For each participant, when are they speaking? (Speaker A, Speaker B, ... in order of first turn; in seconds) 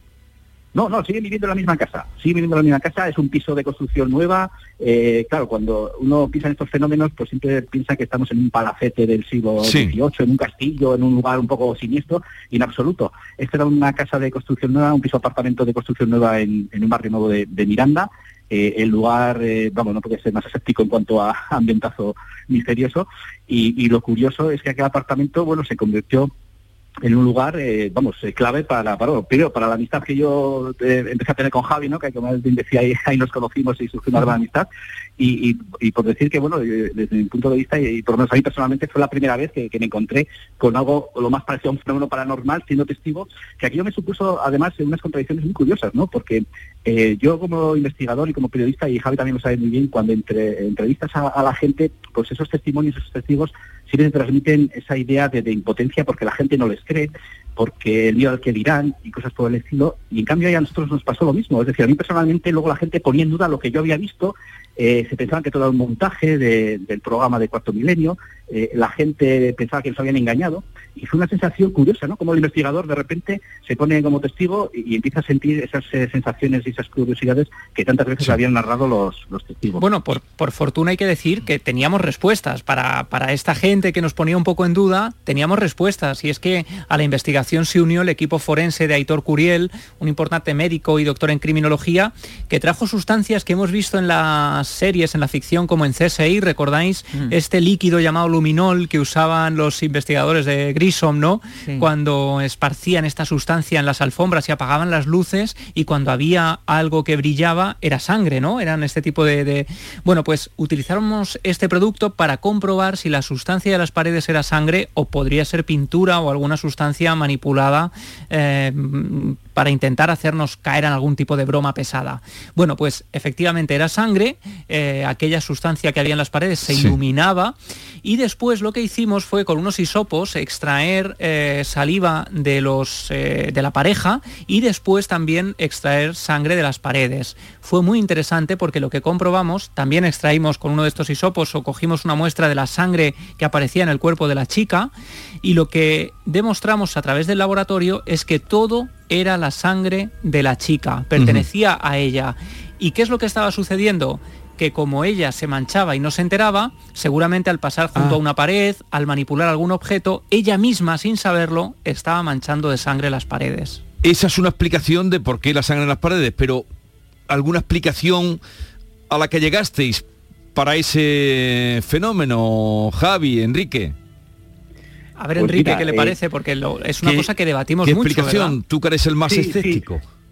Speaker A: 0.7-26.3, 27.0-34.7, 35.2-79.8, 175.3-176.1, 179.3-179.8
Speaker B: 9.6-9.9, 126.7-127.0, 151.2-151.4, 164.0-166.7, 167.3-168.4, 169.1-173.9, 177.0-177.3, 177.8-180.0
Speaker C: 79.8-144.9, 145.4-163.8, 175.2-178.6